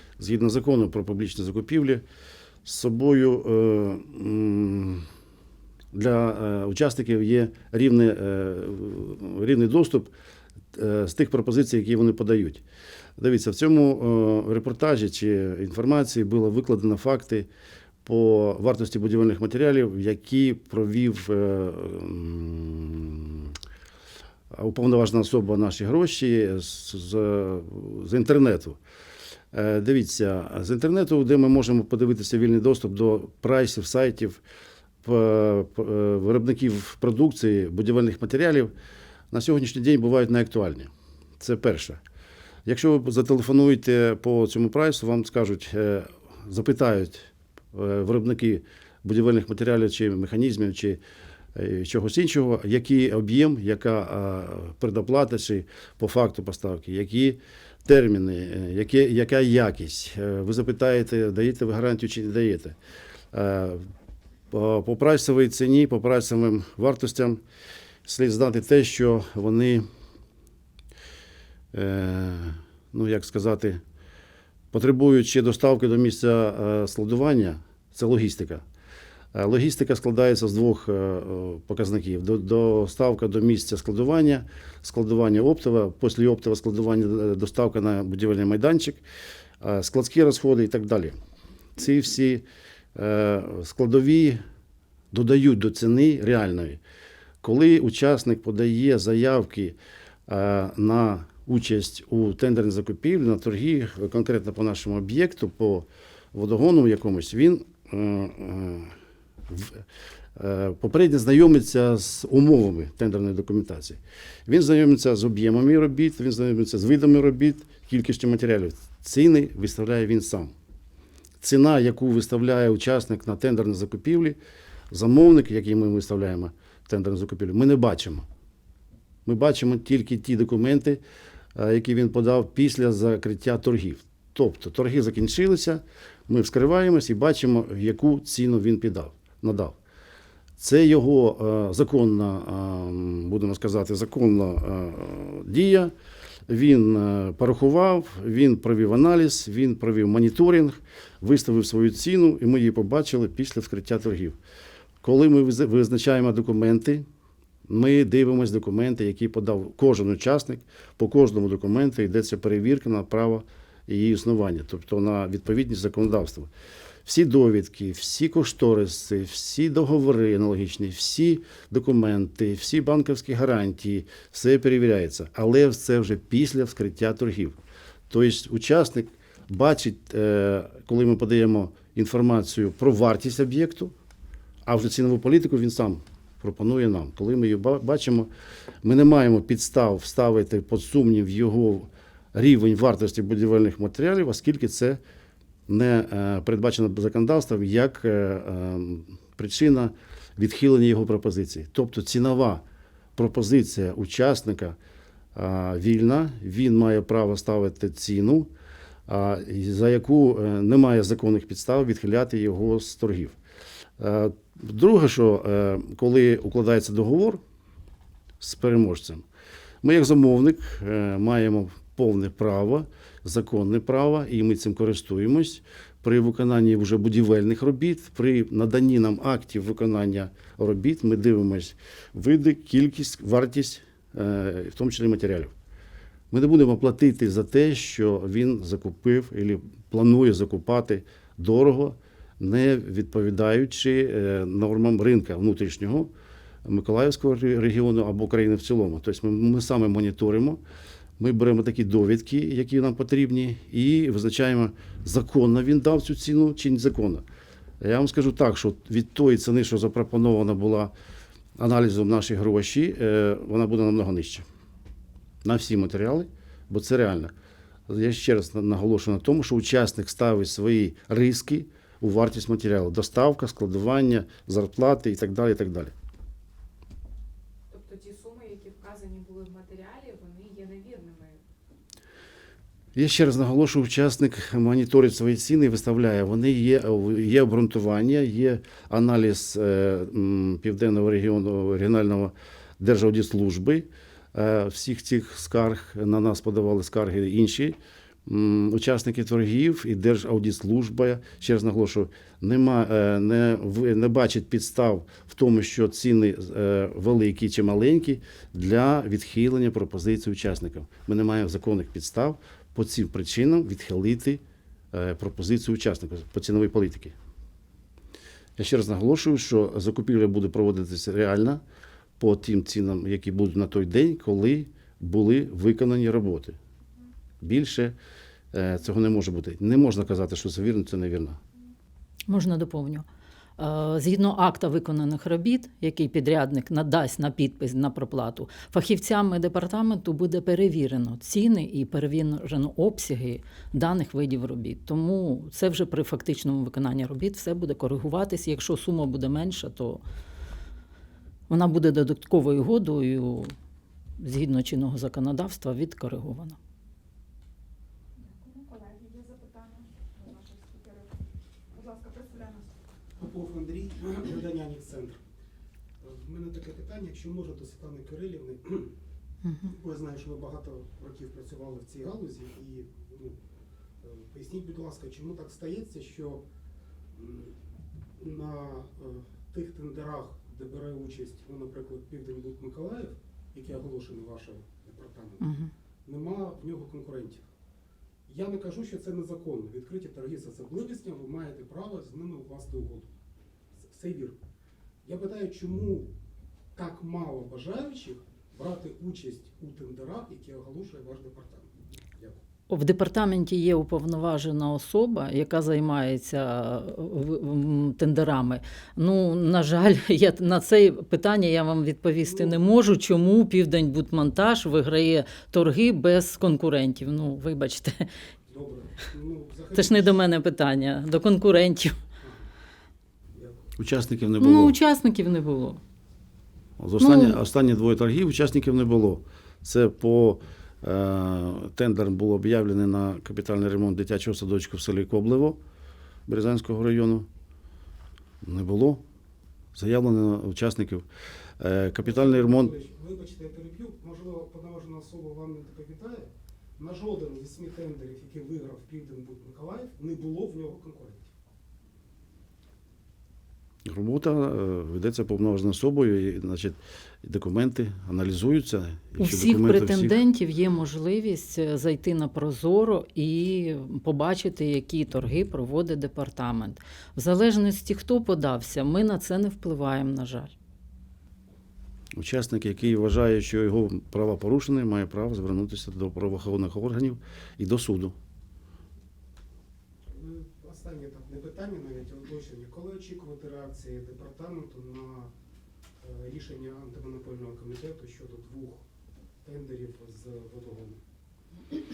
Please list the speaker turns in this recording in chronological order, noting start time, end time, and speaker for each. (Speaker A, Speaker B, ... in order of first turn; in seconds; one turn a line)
Speaker A: 0.2-2.0
Speaker A: 2.6-5.0
Speaker A: 5.9-10.1
Speaker A: 10.7-12.6
Speaker A: 13.2-17.5
Speaker A: 18.0-23.6
Speaker A: 24.5-28.8
Speaker A: 29.5-34.4
Speaker A: 35.0-38.7
Speaker A: 39.3-42.0
Speaker A: 42.6-51.0
Speaker A: 51.5-62.8
Speaker A: 63.3-63.9
Speaker A: 64.5-67.4
Speaker A: 68.0-69.8
Speaker A: 71.7-73.8
Speaker A: 74.7-78.6
Speaker A: 79.3-89.0
Speaker A: 89.6-91.2
Speaker A: 91.8-94.4
Speaker A: 95.1-96.8
Speaker A: 97.4-99.8
Speaker A: 100.3-108.9
Speaker A: 109.5-109.8
Speaker A: 110.3-120.5
Speaker A: 121.4-124.4
Speaker A: 124.9-128.3
Speaker A: 129.2-131.0
Speaker A: 131.5-139.8
Speaker A: 140.6-145.9
Speaker A: 146.5-154.4
Speaker A: 155.0-157.1
Speaker A: 157.7-166.5
Speaker A: 167.0-183.9
Speaker A: 184.7-188.3
Speaker A: 188.8-195.0
Speaker A: 195.7-202.6
Speaker A: 203.2-204.8
Speaker A: 205.3-208.5
Speaker A: 209.1-213.4
Speaker A: 214.0-217.4
Speaker A: 218.4-219.2
Speaker A: 219.8-235.5
Speaker A: 236.3-246.1
Speaker A: 246.6-250.6
Speaker A: 251.2-257.2
Speaker A: 257.8-260.9
Speaker A: 261.6-264.4
Speaker A: 265.4-267.3
Speaker A: 267.9-275.9
Speaker B: 277.7-281.4
Speaker A: 282.9-317.1
Speaker A: 318.6-321.6
Speaker A: 322.2-326.6
Speaker A: 327.4-328.0
Speaker A: 328.5-331.4
Speaker C: 332.3-333.1
Speaker C: 333.6-350.0
Speaker C: 351.5-353.5
Speaker C: 354.2-356.6
Speaker D: 358.1-361.1
Speaker D: 361.7-362.7
Speaker E: 363.2-365.2
Speaker E: 366.0-368.9
Speaker C: 369.4-369.7
Speaker E: 369.6-373.4
Speaker E: 374.0-376.4
Speaker E: 377.1-377.6
Speaker E: 378.2-385.5
Speaker C: 385.4-385.7
Speaker E: 386.1-387.5
Speaker E: 388.3-393.1
Speaker E: 393.7-394.4
Speaker E: 395.0-396.1
Speaker E: 396.7-402.4
Speaker C: 402.7-418.1
Speaker E: 412.2-412.6
Speaker E: 418.5-420.2
Speaker C: 419.7-422.0
Speaker E: 422.2-422.5
Speaker E: 423.3-423.7
Speaker A: 423.8-424.8
Speaker C: 424.4-425.8
Speaker A: 426.8-435.6
Speaker C: 427.0-427.4
Speaker A: 436.3-437.3
Speaker A: 438.4-439.0
Speaker A: 439.7-441.1
Speaker A: 441.6-442.7
Speaker E: 442.0-451.3
Speaker A: 453.8-460.2
Speaker C: 459.2-470.5
Speaker A: 472.1-478.1
Speaker E: 480.1-485.3
Speaker E: 486.0-488.8
Speaker E: 489.4-491.0